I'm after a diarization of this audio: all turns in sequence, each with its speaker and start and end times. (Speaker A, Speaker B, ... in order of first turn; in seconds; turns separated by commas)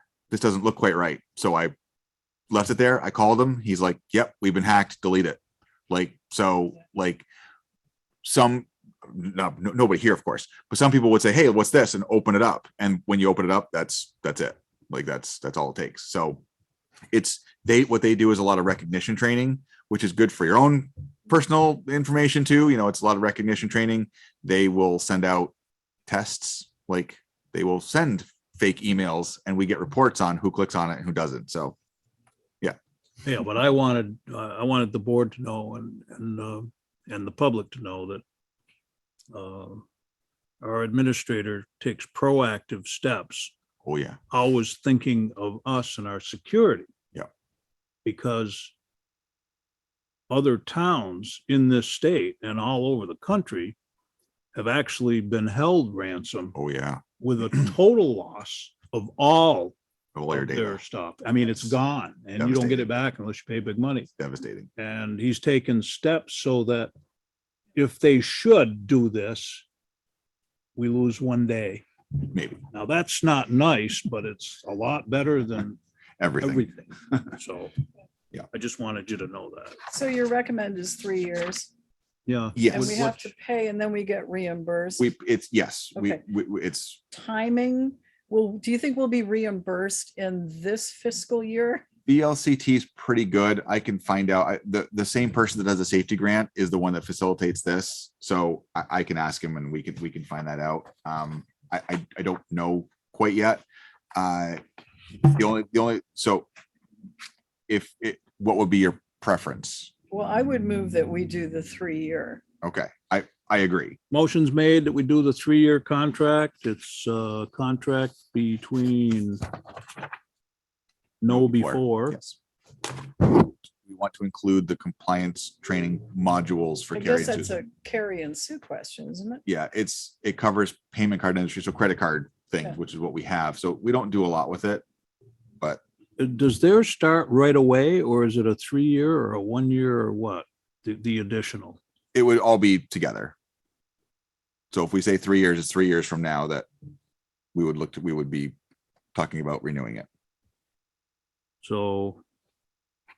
Speaker A: 0.3-1.7, Speaker A: 2.5-5.4, Speaker A: 5.9-7.2, Speaker A: 8.2-16.4, Speaker A: 17.1-25.5, Speaker A: 26.1-31.8, Speaker B: 33.2-38.2, Speaker B: 39.3-39.9, Speaker B: 40.6-43.5, Speaker A: 43.8-44.2, Speaker B: 44.3-46.9, Speaker B: 48.0-48.7, Speaker B: 50.3-53.8, Speaker B: 54.5-56.5, Speaker A: 56.5-57.0, Speaker B: 57.2-59.8, Speaker A: 60.1-60.8, Speaker B: 60.3-64.1, Speaker A: 62.4-62.9, Speaker A: 64.2-64.7, Speaker B: 64.8-66.9, Speaker B: 67.8-69.7, Speaker B: 70.8-71.8, Speaker A: 72.2-72.6, Speaker B: 72.7-75.8, Speaker A: 76.2-76.7, Speaker B: 76.4-77.8, Speaker B: 78.5-79.8, Speaker C: 79.9-81.7, Speaker B: 82.3-83.3, Speaker A: 82.6-83.0, Speaker C: 82.7-85.1, Speaker A: 85.0-87.0, Speaker C: 86.0-86.2, Speaker C: 87.1-91.9, Speaker A: 92.1-103.6, Speaker A: 104.1-104.6, Speaker A: 105.3-106.5, Speaker A: 107.7-109.9, Speaker C: 110.1-112.4, Speaker A: 112.6-114.0, Speaker B: 114.1-119.4, Speaker B: 121.2-122.2, Speaker A: 121.3-122.4, Speaker A: 123.3-127.5, Speaker C: 126.9-129.4, Speaker A: 129.5-134.8, Speaker B: 136.2-141.8, Speaker A: 142.1-143.3, Speaker A: 144.7-146.7, Speaker A: 147.5-148.6, Speaker A: 149.1-150.1, Speaker B: 151.6-152.2